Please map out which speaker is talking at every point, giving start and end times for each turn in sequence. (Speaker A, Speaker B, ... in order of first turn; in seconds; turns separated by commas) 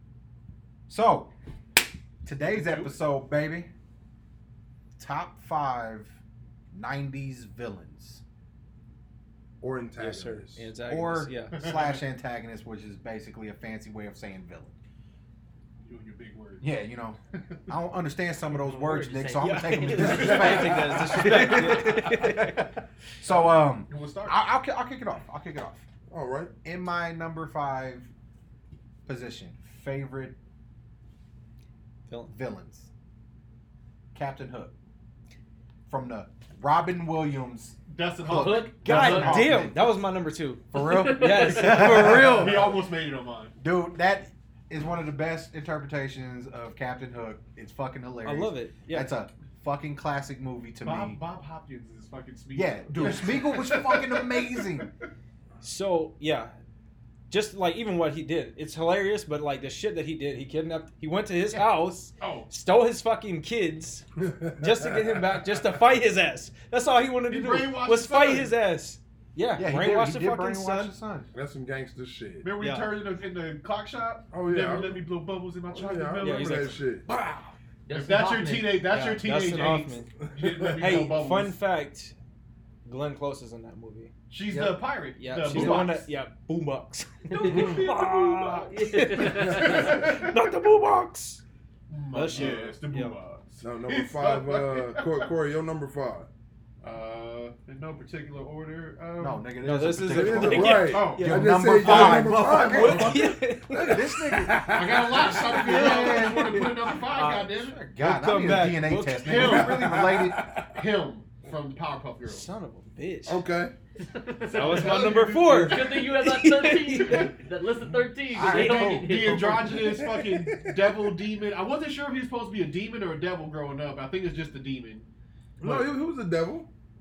Speaker A: 0.9-1.3, Speaker A: 2.2-3.7, Speaker B: 2.6-2.9, Speaker A: 5.0-6.2, Speaker A: 6.7-8.2, Speaker C: 9.6-10.6, Speaker D: 10.0-11.7, Speaker A: 10.9-14.7, Speaker B: 15.8-16.7, Speaker A: 16.6-22.7, Speaker E: 18.6-20.9, Speaker D: 19.4-22.7, Speaker B: 20.0-20.5, Speaker C: 20.3-21.0, Speaker A: 23.2-25.9, Speaker B: 23.2-24.4, Speaker C: 26.1-26.5, Speaker A: 26.6-28.1, Speaker A: 29.1-30.4, Speaker A: 32.3-32.9, Speaker A: 34.1-34.7, Speaker A: 35.9-40.0, Speaker B: 37.9-38.7, Speaker E: 38.3-39.6, Speaker D: 38.9-42.7, Speaker A: 40.7-42.7, Speaker E: 40.8-41.9, Speaker B: 41.8-43.5, Speaker A: 43.6-51.2, Speaker D: 48.2-49.1, Speaker B: 50.8-54.9, Speaker A: 52.5-54.9, Speaker D: 55.6-56.5, Speaker D: 57.3-64.1, Speaker B: 62.2-62.5, Speaker C: 64.2-65.4, Speaker D: 64.6-70.9, Speaker B: 67.3-68.5, Speaker A: 69.6-71.3, Speaker C: 71.3-72.5, Speaker B: 72.4-76.8, Speaker D: 72.6-73.0, Speaker C: 74.3-75.0, Speaker C: 75.7-77.0, Speaker D: 76.2-77.5, Speaker E: 77.9-78.8, Speaker B: 77.9-81.6, Speaker D: 78.9-80.1, Speaker C: 80.4-80.8, Speaker D: 80.8-82.1, Speaker D: 82.8-84.1, Speaker B: 84.3-86.1, Speaker D: 85.2-91.4, Speaker C: 85.5-85.8, Speaker E: 87.3-88.0, Speaker B: 87.4-90.4, Speaker E: 88.7-90.0, Speaker B: 91.9-95.3, Speaker D: 92.1-93.2, Speaker C: 93.6-96.3, Speaker B: 96.8-99.5, Speaker A: 99.2-104.6, Speaker D: 99.6-109.9, Speaker C: 100.1-105.5, Speaker B: 100.5-101.4, Speaker B: 104.7-107.8, Speaker A: 105.2-106.7, Speaker A: 107.6-110.5, Speaker B: 109.2-110.1, Speaker C: 109.6-110.8, Speaker B: 110.7-112.5, Speaker D: 112.2-113.4, Speaker C: 113.3-113.7, Speaker E: 114.0-119.8, Speaker B: 114.4-115.8, Speaker D: 114.5-117.4, Speaker A: 118.3-119.5, Speaker B: 118.5-125.0, Speaker C: 119.3-121.2, Speaker C: 125.6-126.7